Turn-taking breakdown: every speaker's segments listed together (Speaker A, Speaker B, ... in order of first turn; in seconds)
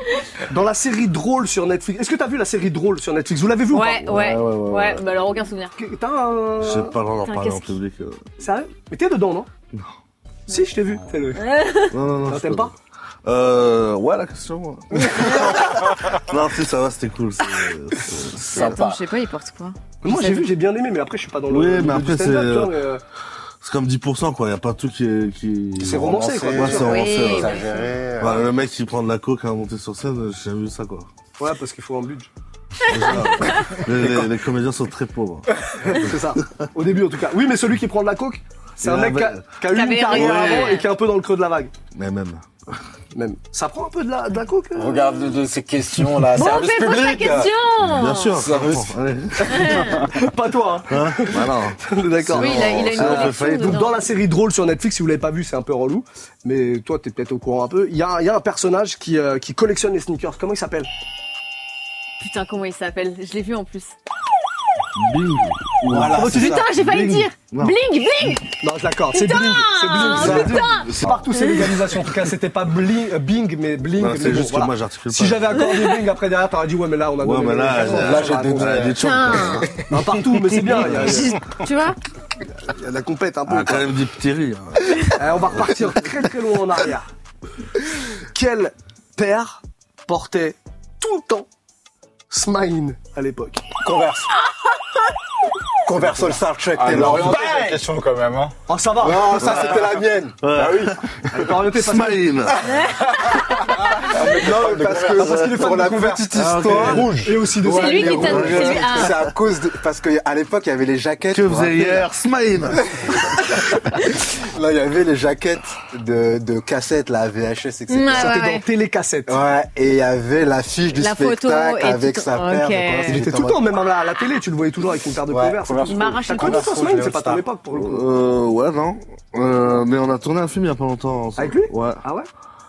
Speaker A: 0.5-4.1, 5.8-7.0, 8.4-9.5, 10.5-11.6, 12.3-12.7, 20.0-23.0, 25.8-26.9, 31.4-32.3, 35.6-41.7, 43.1-45.3, 49.4-60.9, 65.9-66.6, 68.6-79.0, 79.8-81.4, 82.5-84.0, 85.1-87.1, 88.3-91.5, 92.3-93.7, 98.7-100.0, 101.3-102.3, 104.3-109.1, 118.1-119.4, 123.1-128.2, 131.4-132.3
Speaker B: 3.7-5.7, 7.2-7.7, 11.4-11.9, 15.1-15.7, 18.4-20.5, 26.7-27.9, 32.8-33.8, 39.7-40.9, 46.3-48.4, 49.5-50.0, 52.3-54.1, 62.2-63.9, 66.2-68.5, 69.1-71.8, 79.0-79.8, 80.9-82.0, 102.7-103.0, 107.6-109.3, 117.9-118.7, 120.9-123.2, 125.9-126.8
Speaker C: 4.0-5.2, 6.6-8.2, 11.9-18.9, 21.5-22.7, 23.6-27.6, 28.2-31.1, 32.9-36.4, 38.8-39.4, 40.1-40.8, 41.9-42.8, 47.8-50.1, 50.8-53.9, 65.0-67.8, 70.1-71.3, 74.0-75.6, 77.2-80.1, 83.5-85.9, 99.4-99.7, 100.4-102.7, 106.3-107.1, 108.3-108.8, 111.3-112.9, 127.7-132.0
Speaker D: 18.5-19.0, 25.9-28.4, 44.7-47.5, 48.4-48.9, 65.9-66.8, 70.2-70.7, 77.7-79.1, 93.8-94.3, 95.8-97.8, 99.0-100.4, 104.1-112.1, 112.7-118.4, 119.3-123.7, 125.3-127.4
Speaker E: 96.8-98.6, 100.5-101.5, 103.0-105.2, 106.6-107.4, 125.6-127.4